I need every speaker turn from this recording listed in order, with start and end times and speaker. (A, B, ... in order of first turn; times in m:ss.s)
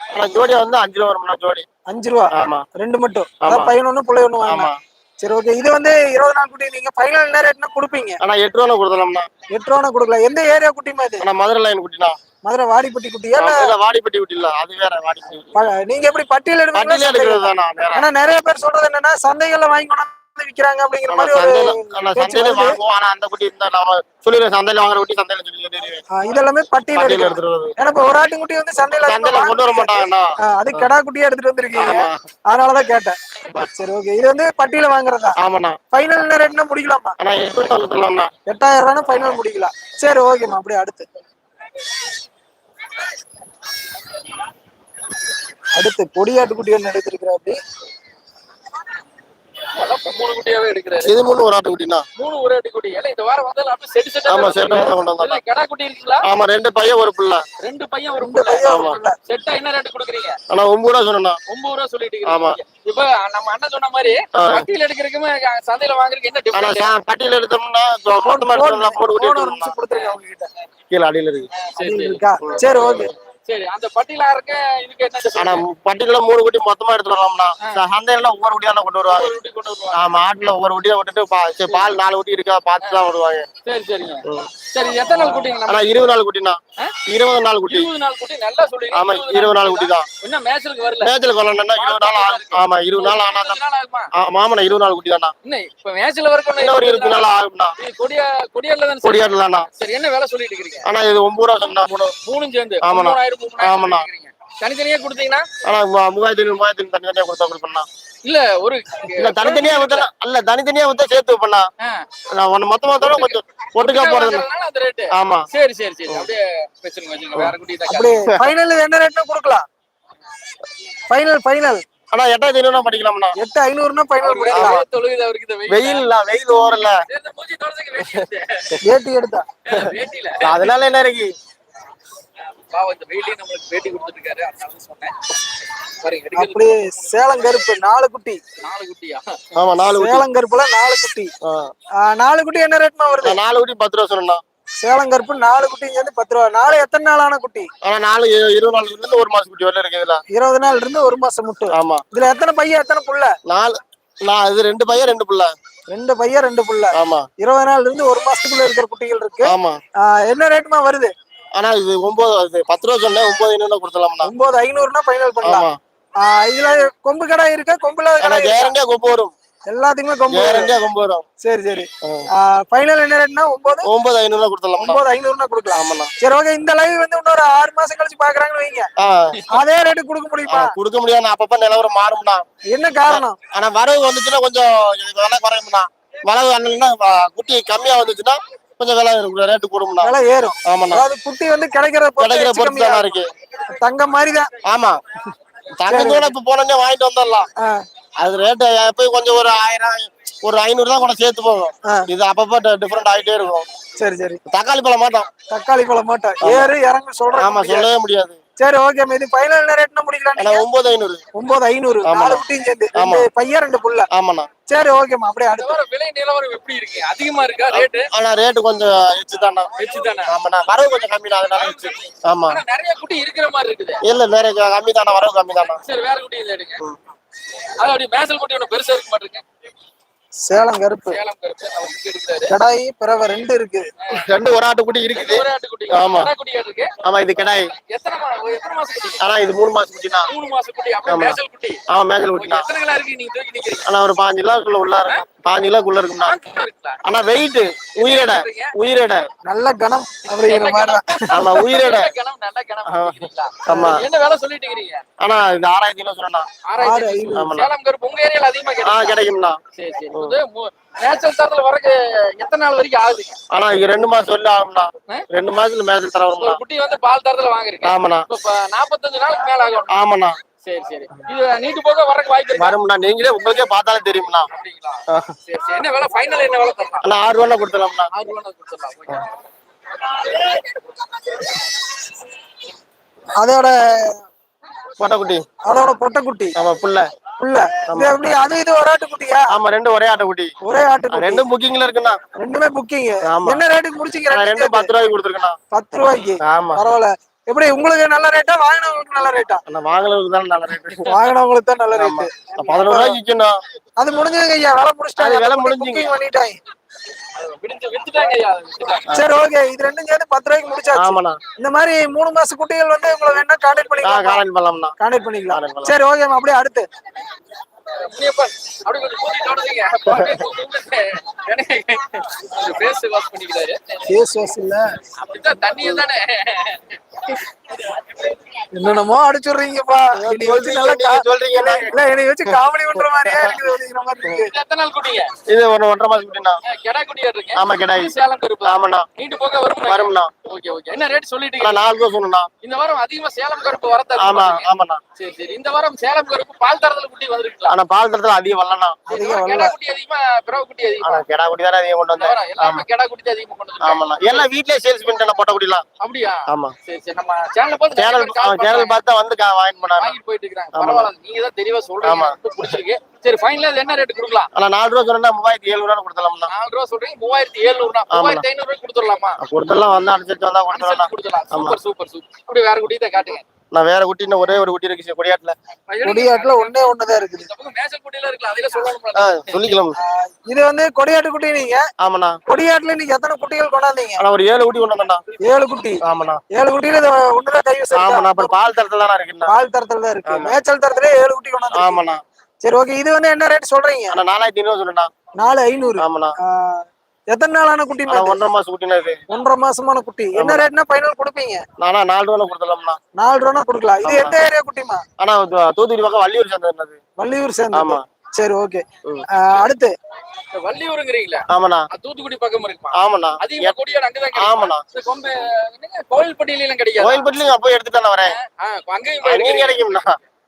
0:00.1-0:01.6 A
0:01.9-0:08.2 B
0:02.3-0:02.7 A
0:03.4-0:03.7 A
0:04.4-0:04.8 A
0:08.2-0:09.3 A
0:09.5-0:11.3 B
0:11.2-0:12.2 A
0:12.4-0:13.7 B
0:13.4-0:15.5 A
0:15.5-0:22.8 B
0:16.7-0:18.1 A
0:21.1-0:26.0 A
0:26.1-0:33.2 B
0:27.0-0:27.7 A
0:29.1-0:30.9 A
0:31.8-0:32.2 A
0:33.7-0:35.4 B
0:35.4-0:35.8 A
0:35.9-0:37.2 B
0:37.2-0:38.3 A
0:38.5-0:41.1 B
0:45.8-0:47.6 B
0:49.8-0:51.1 C
0:51.0-0:52.0 A
0:52.2-0:56.2 C
0:54.3-0:55.4 A
0:56.2-0:57.4 A
0:57.6-1:00.4 C
0:58.2-0:59.2 B
0:58.7-0:59.0 A
1:00.5-1:01.4 A
1:01.5-1:06.9 C
1:02.2-1:02.6 A
1:04.4-1:04.7 A
1:06.5-1:09.8 A
1:08.2-1:10.5 B
1:10.9-1:11.5 A
1:11.6-1:15.6 C
1:11.8-1:13.1 B
1:12.4-1:13.0 A
1:15.4-1:19.4 A
1:19.1-1:20.1 C
1:19.9-1:23.5 A
1:21.7-1:22.0 C
1:23.6-1:25.9 C
1:24.2-1:24.5 A
1:25.1-1:27.9 A
1:27.7-1:31.1 C
1:28.9-1:30.1 A
1:31.0-1:33.6 A
1:31.7-1:34.1 C
1:34.2-1:35.3 A
1:35.4-1:37.3 C
1:36.6-1:37.7 A
1:37.8-1:40.9 C
1:39.0-1:39.7 A
1:40.8-1:42.2 A
1:42.2-1:45.5 C
1:42.8-1:44.1 A
1:45.6-1:47.9 A
1:48.2-1:50.1 C
1:49.2-1:51.7 A
1:52.4-1:54.5 A
1:53.0-1:58.2 C
1:55.1-1:55.5 A
1:57.9-1:59.6 B
2:01.1-2:01.8 B
2:02.1-2:03.4 A
2:03.4-2:04.8 B
2:04.2-2:06.1 C
2:04.5-2:04.8 A
2:05.7-2:07.0 A
2:06.8-2:08.8 C
2:08.0-2:08.3 A
2:08.8-2:09.5 B
2:09.6-2:10.7 C
2:09.7-2:11.3 A
2:12.7-2:17.3 C
2:16.3-2:18.4 B
2:18.6-2:19.4 C
2:19.6-2:20.3 A
2:19.9-2:21.3 B
2:21.4-2:21.7 A
2:22.0-2:23.4 B
2:23.2-2:24.4 A
2:24.8-2:27.7 B
2:27.8-2:30.2 A
2:30.3-2:33.3 B
2:31.7-2:32.0 A
2:33.5-2:35.5 A
2:35.9-2:41.1 B
2:36.9-2:37.3 A
2:39.5-2:39.8 A
2:41.6-2:44.3 A
2:44.2-2:45.7 B
2:45.4-2:45.8 A
2:46.2-2:48.7 B
2:48.2-2:49.3 A
2:49.7-2:50.8 B
2:50.3-2:51.2 A
2:51.4-2:53.9 B
2:52.0-2:52.3 A
2:53.8-2:55.0 A
2:54.8-2:58.9 B
2:55.7-2:56.1 A
2:59.0-2:59.4 A
2:59.5-3:00.8 B
3:00.5-3:02.4 A
3:02.7-3:03.4 B
3:03.1-3:11.1 A
3:10.0-3:13.1 B
3:12.2-3:13.3 A
3:13.7-3:14.5 B
3:14.6-3:15.0 A
3:15.8-3:17.5 A
3:15.9-3:16.3 B
3:18.2-3:23.7 A
3:24.0-3:24.4 B
3:24.5-3:25.3 A
3:25.5-3:27.9 B
3:26.4-3:26.7 A
3:27.4-3:28.4 A
3:28.6-3:30.6 B
3:30.4-3:31.2 A
3:31.3-3:34.1 B
3:32.0-3:32.4 A
3:33.0-3:33.2 A
3:34.1-3:34.5 A
3:34.7-3:35.8 B
3:35.6-3:38.1 C
3:37.7-3:39.7 A
3:39.8-3:40.3 C
3:40.3-3:42.6 A
3:41.5-3:44.0 C
3:44.0-3:45.8 A
3:45.8-3:46.8 C
3:47.8-3:49.4 C
3:50.4-3:51.2 B
3:51.1-3:52.5 C
3:52.5-3:53.9 B
3:54.2-3:56.3 A
3:55.1-3:57.0 C
3:57.0-3:57.7 A
3:57.9-3:59.2 C
3:59.2-4:00.3 A
4:00.3-4:03.9 C
4:01.1-4:01.4 A
4:01.9-4:02.7 A
4:03.8-4:06.4 A
4:06.2-4:07.0 C
4:07.0-4:09.2 A
4:08.0-4:08.7 C
4:09.5-4:11.6 B
4:10.3-4:15.0 C
4:11.3-4:12.1 A
4:12.9-4:14.0 A
4:15.2-4:16.5 A
4:16.7-4:23.4 C
4:16.8-4:17.5 B
4:17.4-4:17.7 A
4:18.8-4:19.6 A
4:23.5-4:26.6 A
4:26.4-4:30.0 C
4:27.8-4:28.3 A
4:29.9-4:30.4 A
4:30.6-4:32.8 C
4:32.6-4:34.5 A
4:34.5-4:37.1 C
4:35.1-4:35.4 A
4:37.0-4:38.1 A
4:38.1-4:39.3 C
4:40.1-4:41.4 C
4:43.4-4:44.2 B
4:45.0-4:45.4 A
4:45.7-4:46.6 B
4:46.6-4:47.1 A
4:47.4-4:49.5 B
4:47.9-4:48.2 A
4:49.5-4:50.6 A
4:50.6-4:51.4 B
4:51.1-4:52.2 A
4:52.4-4:54.9 B
4:53.3-4:53.6 A
4:54.3-4:55.6 A
4:55.7-4:59.6 B
4:56.4-4:56.8 A
4:59.7-5:01.2 A
5:01.0-5:03.2 B
5:01.9-5:03.6 A
5:04.0-5:06.6 B
5:05.2-5:06.1 A
5:07.4-5:09.1 C
5:09.1-5:14.4 B
5:11.0-5:11.4 A
5:14.0-5:15.0 A
5:15.0-5:16.9 B
5:15.5-5:15.9 A
5:17.9-5:24.1 C
5:20.1-5:20.4 A
5:24.1-5:24.8 B
5:25.2-5:27.4 C
5:28.7-5:34.5 B
5:30.2-5:33.6 A
5:34.4-5:35.3 C
5:35.5-5:36.6 A
5:36.6-5:41.8 C
5:37.6-5:39.1 A
5:39.9-5:40.3 A
5:41.6-5:42.5 A
5:42.6-5:47.8 C
5:44.2-5:45.0 A
5:47.7-5:49.0 A
5:49.1-5:49.8 B
5:49.1-5:51.2 C
5:51.0-5:52.9 A
5:52.2-5:54.5 C
5:53.8-5:55.8 A
5:56.0-5:59.0 C
5:56.5-5:56.7 A
5:58.0-6:00.1 A
6:00.0-6:04.5 C
6:00.7-6:01.1 A
6:02.0-6:02.4 A
6:04.5-6:06.5 A
6:06.5-6:09.4 C
6:08.1-6:08.4 A
6:09.4-6:11.8 A
6:10.7-6:13.4 C
6:13.7-6:15.5 A
6:15.9-6:19.7 C
6:16.0-6:17.5 B
6:19.1-6:20.0 A
6:20.0-6:21.8 B
6:22.0-6:22.4 A
6:22.5-6:24.2 B
6:24.2-6:25.2 A
6:25.4-6:26.0 B
6:26.0-6:26.4 A
6:26.5-6:28.5 B
6:28.0-6:29.5 A
6:29.5-6:32.0 B
6:30.3-6:30.6 A
6:31.8-6:32.2 A
6:32.6-6:34.2 B
6:34.1-6:35.1 A
6:35.4-6:38.4 B
6:36.0-6:36.4 A
6:38.1-6:39.2 A
6:39.3-6:41.6 B
6:40.4-6:40.6 A
6:41.8-6:43.0 A
6:43.2-6:45.0 B
6:44.0-6:44.4 A
6:45.2-6:47.0 A
6:47.2-6:49.9 B
6:47.7-6:48.0 A
6:50.5-6:57.4 C
6:51.5-6:51.9 A
6:52.9-6:53.8 A
6:54.3-6:54.8 A
6:57.0-6:58.4 A
6:58.3-6:59.8 C
6:59.2-7:00.2 A